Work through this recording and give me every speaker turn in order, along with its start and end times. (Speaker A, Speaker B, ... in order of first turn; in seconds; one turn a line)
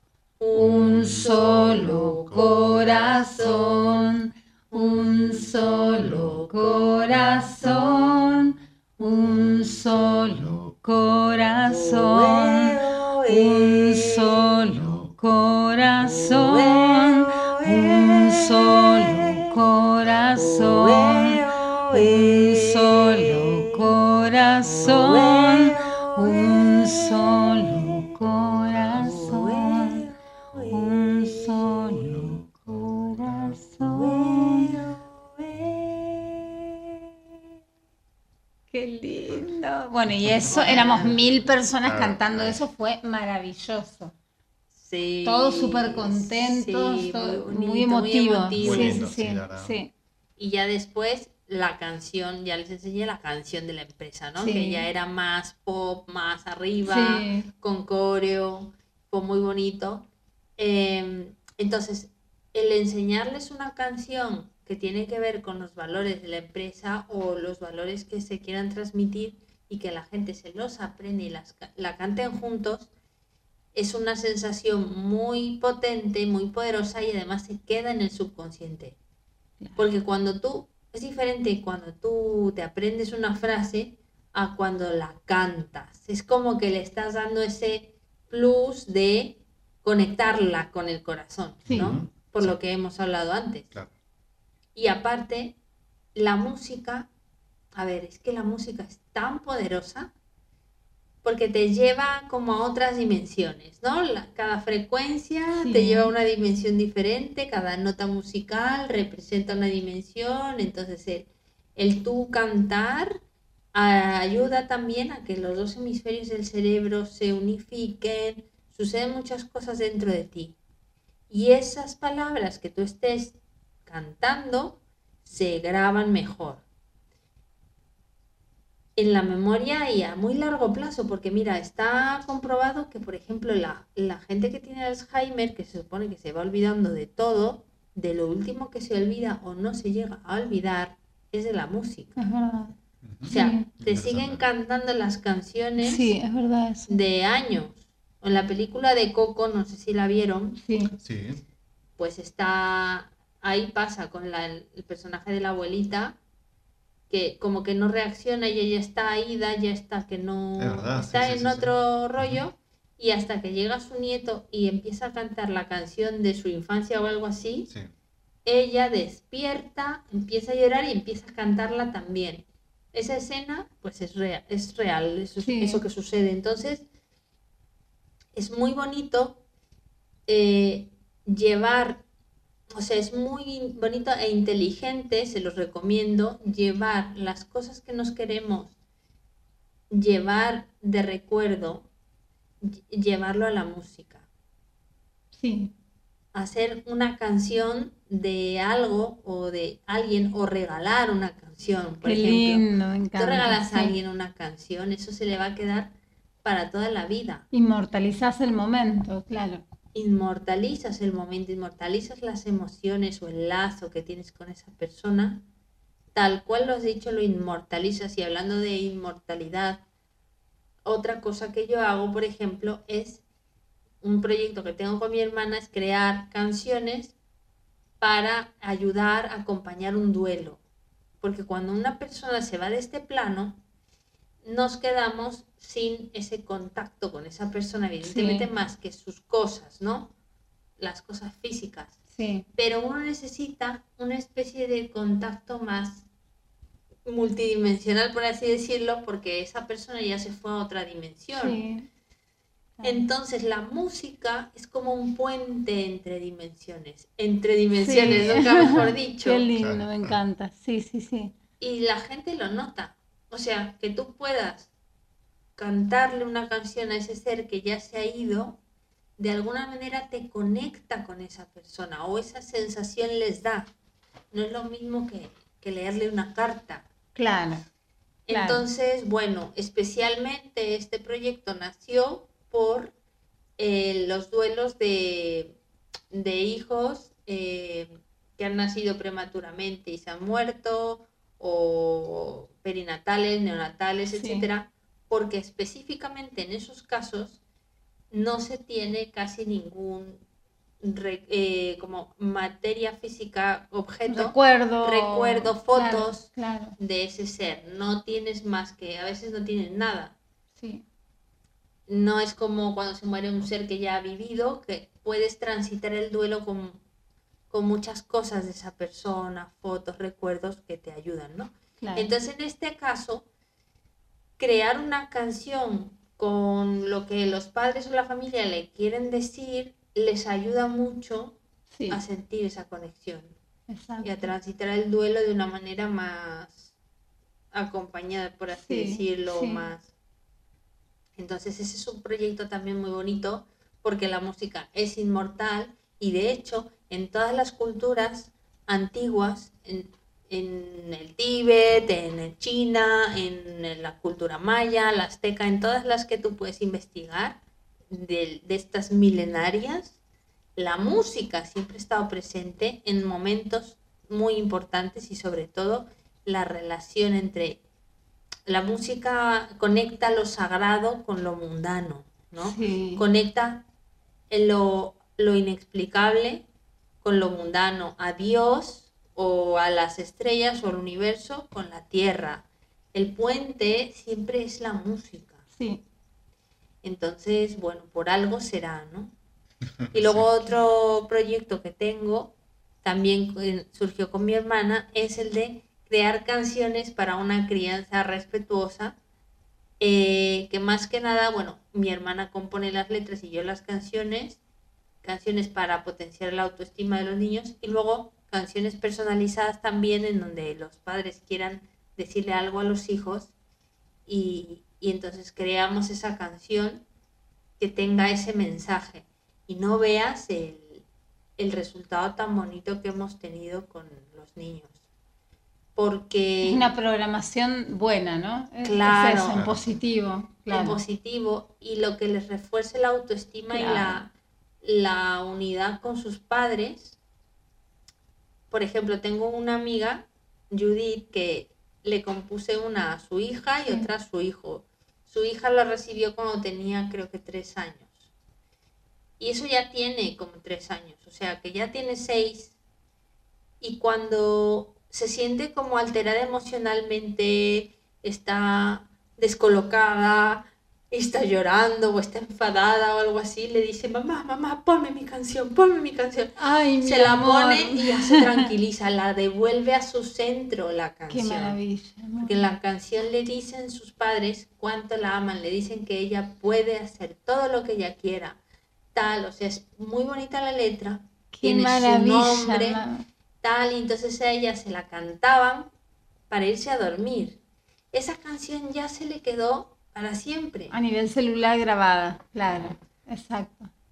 Speaker A: 0.4-4.0
Speaker B: 0.6-12.8
Speaker C: 0.6-3.8
Speaker A: 4.7-7.9
Speaker C: 5.7-6.3
Speaker C: 7.2-7.5
Speaker C: 9.2-10.6
Speaker A: 11.7-14.4
Speaker B: 13.3-21.4
Speaker C: 14.3-15.1
Speaker A: 16.1-19.4
Speaker C: 20.0-20.4
Speaker A: 20.4-23.7
Speaker B: 21.9-30.1
Speaker A: 24.7-27.2
Speaker A: 27.8-28.1
Speaker C: 28.5-29.2
Speaker A: 29.0-31.7
Speaker B: 30.7-34.7
Speaker C: 32.1-33.5
Speaker A: 33.8-36.5
Speaker B: 38.7-44.1
Speaker C: 40.2-40.5
Speaker A: 40.5-41.1
Speaker C: 41.8-42.6
Speaker A: 44.8-49.0
Speaker B: 45.2-49.9
Speaker C: 48.6-49.8
Speaker A: 50.4-72.9
Speaker B: 54.4-54.9
Speaker B: 56.8-57.5
Speaker A: 73.7-79.0
Speaker A: 79.8-93.7
Speaker C: 91.7-92.6
Speaker A: 94.8-95.6
Speaker A: 96.2-97.1
Speaker A: 97.7-100.1
Speaker A: 101.2-113.2
Speaker B: 105.6-106.1
Speaker A: 113.7-120.6
Speaker A: 121.3-126.6
Speaker A: 129.0-142.3
Speaker B: 142.2-143.7
Speaker C: 143.0-144.5
Speaker A: 143.3-146.1
Speaker B: 145.8-146.9
Speaker A: 146.9-150.6
Speaker B: 150.6-150.9
Speaker C: 151.0-151.4
Speaker A: 152.0-156.2
Speaker A: 157.1-167.7
Speaker C: 160.6-162.4
Speaker A: 168.4-176.8
Speaker B: 175.4-175.8
Speaker A: 178.3-179.4
Speaker A: 180.3-182.0
Speaker A: 182.7-188.7
Speaker A: 189.9-191.9
Speaker A: 192.6-194.2
Speaker B: 195.4-195.7
Speaker A: 196.3-207.4
Speaker B: 202.0-203.9
Speaker B: 207.5-209.6
Speaker A: 209.9-215.4
Speaker A: 216.1-219.8
Speaker A: 220.8-223.2
Speaker A: 224.0-227.2
Speaker A: 228.0-230.6
Speaker A: 231.2-233.6
Speaker A: 234.4-240.1
Speaker B: 238.0-238.5
Speaker A: 240.8-242.0
Speaker B: 242.2-242.5
Speaker A: 242.6-246.1
Speaker A: 247.1-251.6
Speaker B: 251.4-251.9
Speaker B: 252.8-253.1
Speaker A: 252.8-259.4
Speaker B: 257.8-261.3
Speaker C: 258.0-258.3
Speaker C: 259.6-260.2
Speaker A: 261.6-264.7
Speaker A: 265.6-268.6
Speaker A: 269.2-273.7
Speaker A: 274.3-276.9
Speaker B: 277.2-277.6
Speaker A: 278.3-282.9
Speaker B: 278.3-278.6
Speaker A: 283.6-285.6
Speaker A: 286.1-297.4
Speaker B: 294.1-294.5
Speaker A: 298.1-300.2
Speaker A: 300.8-310.2
Speaker B: 304.1-306.8
Speaker B: 310.6-310.9
Speaker A: 311.9-316.8
Speaker A: 317.5-323.3
Speaker B: 321.8-322.1
Speaker A: 324.4-333.4
Speaker B: 331.7-332.0
Speaker B: 333.7-334.3
Speaker A: 334.0-336.7
Speaker A: 337.5-339.9
Speaker B: 338.6-339.7
Speaker A: 341.2-357.4
Speaker A: 357.9-360.0
Speaker A: 360.6-367.6
Speaker A: 368.5-373.6
Speaker B: 372.4-373.1
Speaker A: 374.3-376.5
Speaker A: 377.0-385.4
Speaker B: 385.6-385.8
Speaker A: 386.8-389.1
Speaker C: 389.8-390.3
Speaker A: 389.9-399.0
Speaker A: 399.8-404.4
Speaker A: 405.0-413.3
Speaker A: 414.1-416.9
Speaker A: 417.6-420.8
Speaker A: 421.4-424.8
Speaker A: 425.8-426.7
Speaker B: 426.4-430.8
Speaker A: 428.6-429.4
Speaker C: 429.3-429.7
Speaker A: 430.5-434.1
Speaker B: 433.5-434.0
Speaker A: 434.6-437.0
Speaker A: 438.5-448.1
Speaker A: 449.2-452.6
Speaker A: 453.6-471.6
Speaker B: 466.4-468.5
Speaker B: 471.1-472.5
Speaker A: 472.2-478.4
Speaker A: 478.9-482.8
Speaker B: 481.3-483.0
Speaker A: 483.4-485.7
Speaker A: 486.3-487.4
Speaker A: 487.9-490.7
Speaker B: 490.7-493.7